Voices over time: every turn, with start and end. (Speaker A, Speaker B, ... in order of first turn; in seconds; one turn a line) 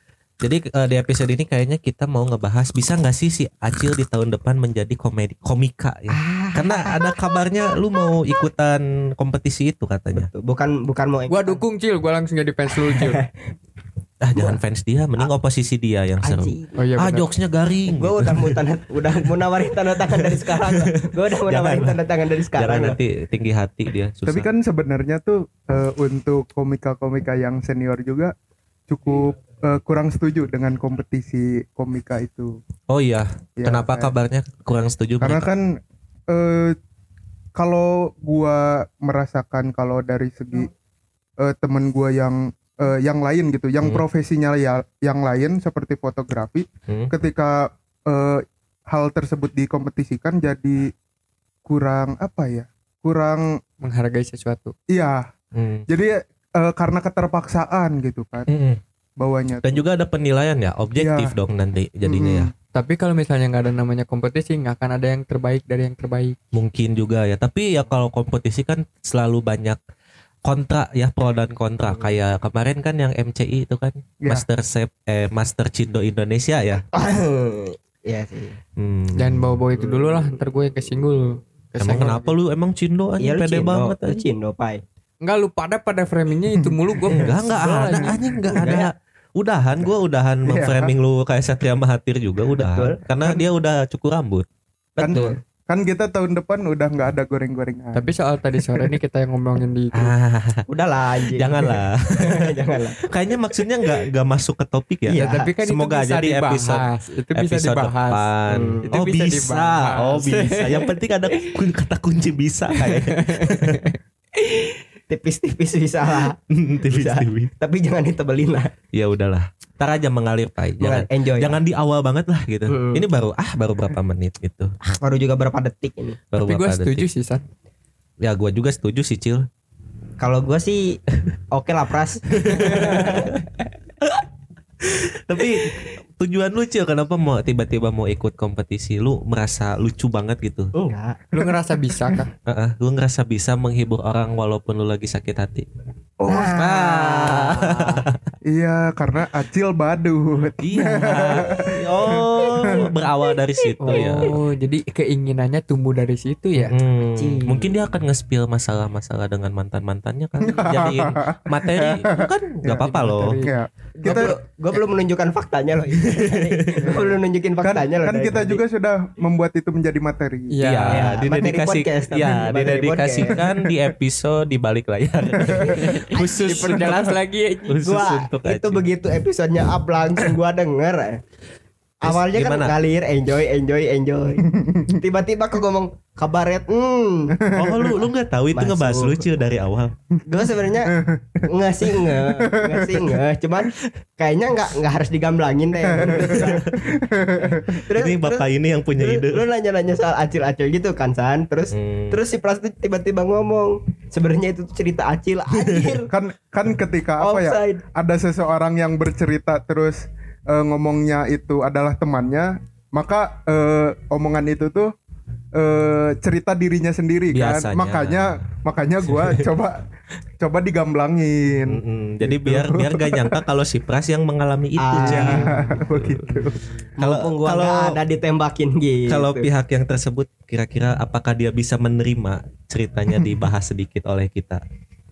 Speaker A: 0.4-10.3
Speaker B: 6.1-7.2
Speaker B: 10.2-11.6
Speaker C: 11.3-13.2
Speaker B: 12.9-13.2
Speaker A: 14.2-18.6
Speaker B: 16.2-16.8
Speaker C: 16.8-17.3
Speaker B: 17.9-23.0
Speaker A: 21.5-22.0
Speaker A: 22.5-24.5
Speaker D: 24.3-28.4
Speaker D: 28.9-32.6
Speaker A: 32.9-35.5
Speaker D: 33.6-34.1
Speaker D: 35.2-36.8
Speaker D: 37.5-40.7
Speaker D: 41.4-50.9
Speaker D: 51.6-53.6
Speaker C: 53.8-54.8
Speaker D: 54.9-55.3
Speaker A: 55.5-55.9
Speaker D: 55.9-58.5
Speaker A: 58.5-58.8
Speaker D: 59.2-59.9
Speaker A: 59.6-62.5
Speaker D: 61.0-61.4
Speaker D: 62.0-62.5
Speaker C: 62.7-66.4
Speaker A: 66.5-69.8
Speaker A: 70.5-76.8
Speaker B: 76.9-78.6
Speaker A: 78.8-79.5
Speaker C: 79.1-82.3
Speaker A: 81.8-84.2
Speaker B: 83.2-84.8
Speaker C: 85.2-88.8
Speaker D: 86.5-87.4
Speaker A: 87.1-94.5
Speaker D: 88.0-88.8
Speaker D: 90.5-90.9
Speaker B: 92.6-93.0
Speaker B: 95.0-95.4
Speaker D: 95.0-99.0
Speaker C: 97.9-100.1
Speaker A: 99.9-100.6
Speaker B: 100.7-103.1
Speaker A: 101.3-102.4
Speaker A: 103.1-113.8
Speaker B: 105.1-105.5
Speaker C: 105.1-108.3
Speaker B: 108.5-109.0
Speaker C: 108.8-110.9
Speaker C: 112.7-114.0
Speaker B: 115.1-116.4
Speaker A: 116.5-117.5
Speaker B: 116.9-118.7
Speaker A: 118.9-124.7
Speaker B: 120.8-121.6
Speaker B: 122.7-123.0
Speaker B: 125.0-126.2
Speaker A: 126.3-127.1
Speaker C: 126.3-127.4
Speaker A: 128.2-129.5
Speaker B: 130.2-131.0
Speaker B: 131.5-133.4
Speaker A: 132.4-133.3
Speaker A: 134.8-140.7
Speaker B: 140.8-141.2
Speaker C: 141.3-142.3
Speaker D: 141.3-142.2
Speaker A: 142.5-145.7
Speaker D: 146.2-146.6
Speaker B: 146.3-148.0
Speaker A: 146.6-148.2
Speaker D: 148.5-152.9
Speaker A: 150.6-154.3
Speaker C: 153.8-156.8
Speaker A: 156.6-163.4
Speaker B: 157.2-157.7
Speaker D: 160.4-164.4
Speaker C: 162.8-163.5
Speaker B: 164.0-168.6
Speaker A: 166.1-167.0
Speaker D: 166.8-167.1
Speaker D: 167.6-170.6
Speaker C: 170.5-171.2
Speaker A: 170.6-177.1
Speaker B: 170.9-173.4
Speaker B: 175.4-177.0
Speaker C: 175.7-178.0
Speaker A: 177.7-178.9
Speaker B: 177.8-181.2
Speaker A: 182.0-182.8
Speaker B: 182.0-184.4
Speaker D: 184.5-184.8
Speaker B: 185.0-187.4
Speaker D: 187.4-188.0
Speaker A: 187.5-189.9
Speaker B: 188.5-189.2
Speaker B: 190.3-190.9
Speaker D: 190.9-193.2
Speaker B: 191.5-196.7
Speaker D: 195.9-197.8
Speaker A: 196.1-196.5
Speaker B: 197.4-198.5
Speaker A: 198.0-199.4
Speaker B: 199.0-206.1
Speaker A: 201.7-202.2
Speaker D: 206.1-214.9
Speaker B: 207.2-207.8
Speaker D: 215.6-219.8
Speaker A: 217.3-218.4
Speaker A: 219.1-219.4
Speaker D: 220.4-223.3
Speaker A: 221.7-226.2
Speaker B: 224.8-225.5
Speaker D: 225.0-226.7
Speaker A: 227.0-228.0
Speaker B: 227.0-229.5
Speaker A: 229.1-234.6